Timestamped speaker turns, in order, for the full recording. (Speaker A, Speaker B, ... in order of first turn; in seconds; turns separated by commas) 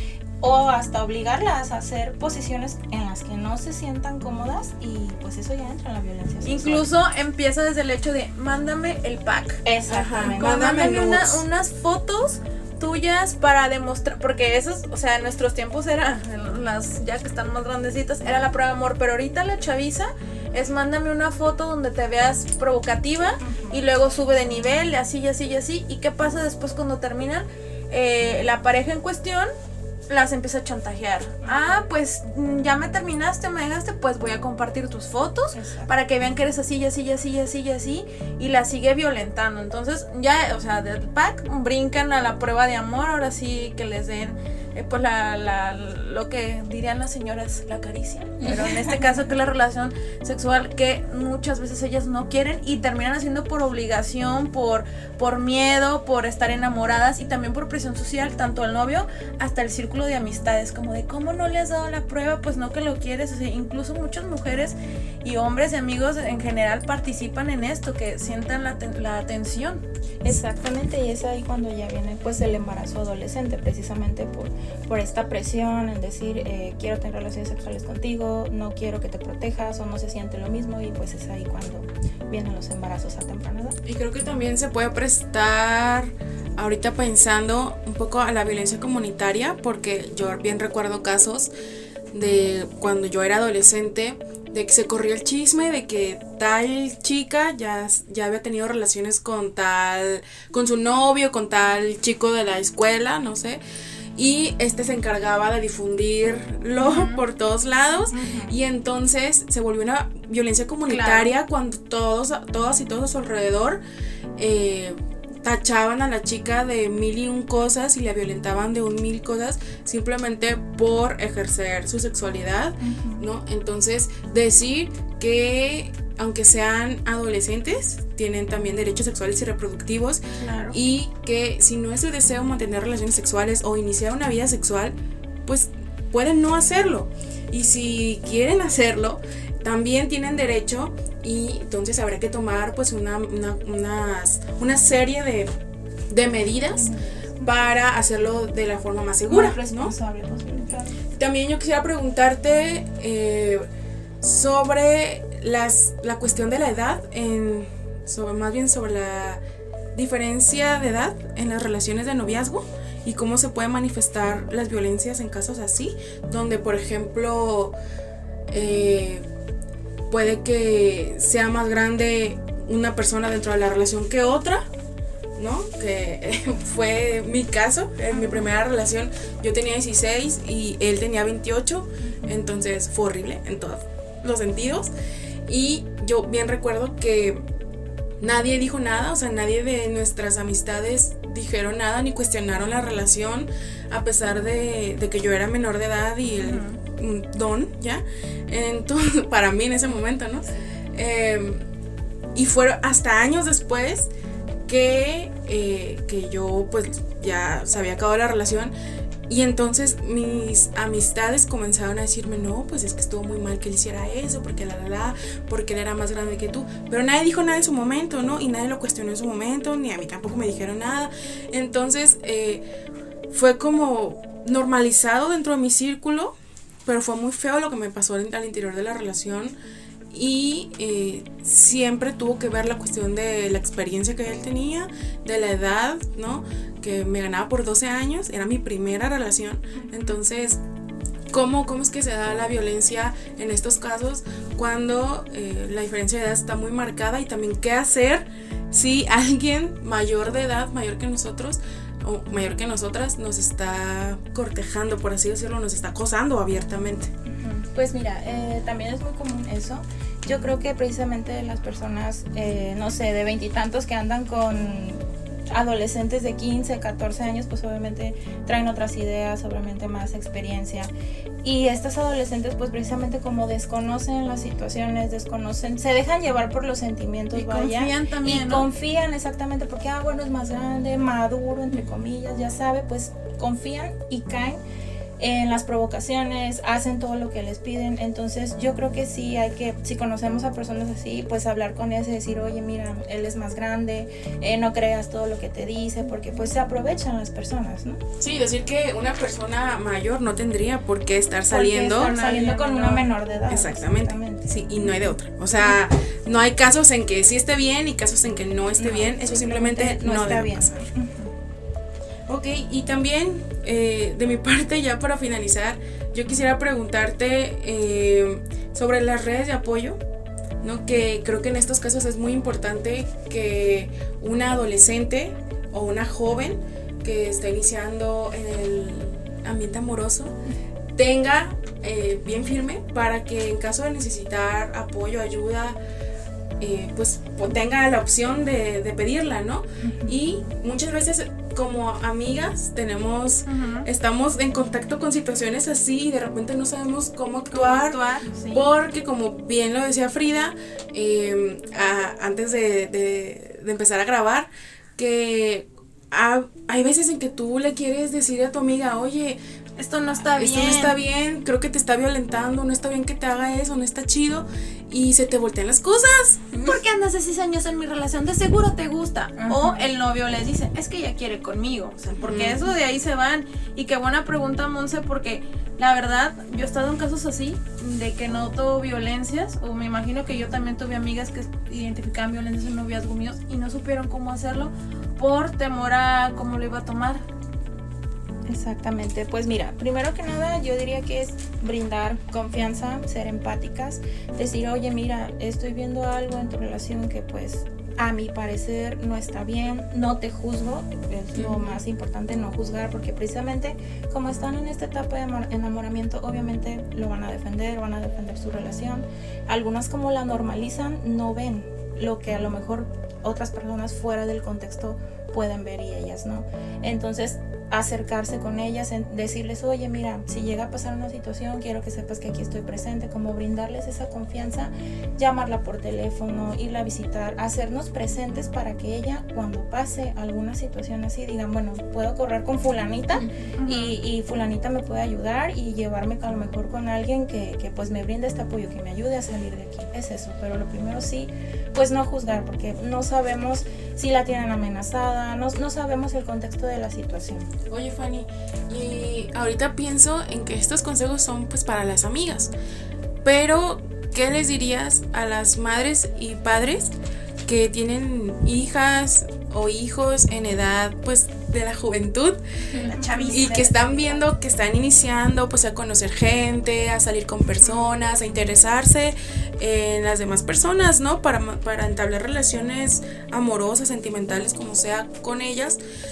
Speaker A: 0.4-6.9, Speaker B: 6.4-9.6, Speaker A: 9.7-10.8, Speaker C: 9.9-11.4, Speaker B: 10.2-29.5, Speaker A: 23.4-23.8, Speaker B: 30.1-69.8, Speaker A: 31.4-31.8, Speaker A: 35.5-35.9, Speaker A: 70.2-83.8, Speaker C: 83.9-91.5, Speaker C: 92.1-103.6, Speaker C: 104.2-113.8, Speaker B: 106.8-107.2, Speaker A: 108.1-108.6, Speaker B: 110.9-111.3, Speaker C: 114.4-134.9, Speaker A: 122.8-123.2, Speaker A: 130.4-130.8, Speaker C: 135.5-145.5, Speaker C: 146.1-149.9, Speaker A: 146.7-147.5, Speaker A: 149.3-151.0, Speaker C: 151.1-153.7, Speaker C: 154.2-159.4, Speaker C: 159.9-167.8, Speaker C: 168.5-169.2, Speaker C: 170.1-174.6, Speaker C: 175.4-184.9, Speaker A: 178.1-178.5, Speaker A: 182.1-182.3, Speaker C: 185.5-187.4, Speaker C: 188.2-201.6, Speaker B: 196.4-196.8, Speaker C: 202.3-204.1, Speaker C: 204.7-208.7, Speaker C: 209.3-222.6, Speaker C: 223.3-226.3, Speaker C: 226.9-229.6, Speaker C: 230.1-240.6, Speaker C: 241.3-257.1, Speaker A: 257.3-270.9, Speaker A: 271.4-284.6, Speaker B: 277.4-278.7, Speaker A: 285.2-298.0, Speaker C: 298.2-302.2, Speaker A: 301.5-304.9, Speaker B: 302.0-303.1, Speaker C: 303.5-310.8, Speaker A: 308.8-311.3, Speaker C: 312.3-320.0, Speaker C: 320.6-330.4, Speaker C: 330.9-335.8, Speaker C: 336.6-359.4, Speaker A: 339.8-340.2, Speaker B: 343.5-343.9, Speaker A: 347.5-348.6, Speaker B: 359.8-360.9, Speaker C: 360.2-366.5, Speaker B: 366.6-387.2, Speaker A: 369.4-369.9, Speaker C: 372.2-372.7, Speaker A: 388.5-447.5, Speaker B: 433.6-433.9, Speaker C: 447.7-452.5, Speaker C: 453.2-456.9, Speaker C: 457.4-475.8, Speaker A: 462.8-464.2, Speaker B: 462.9-463.7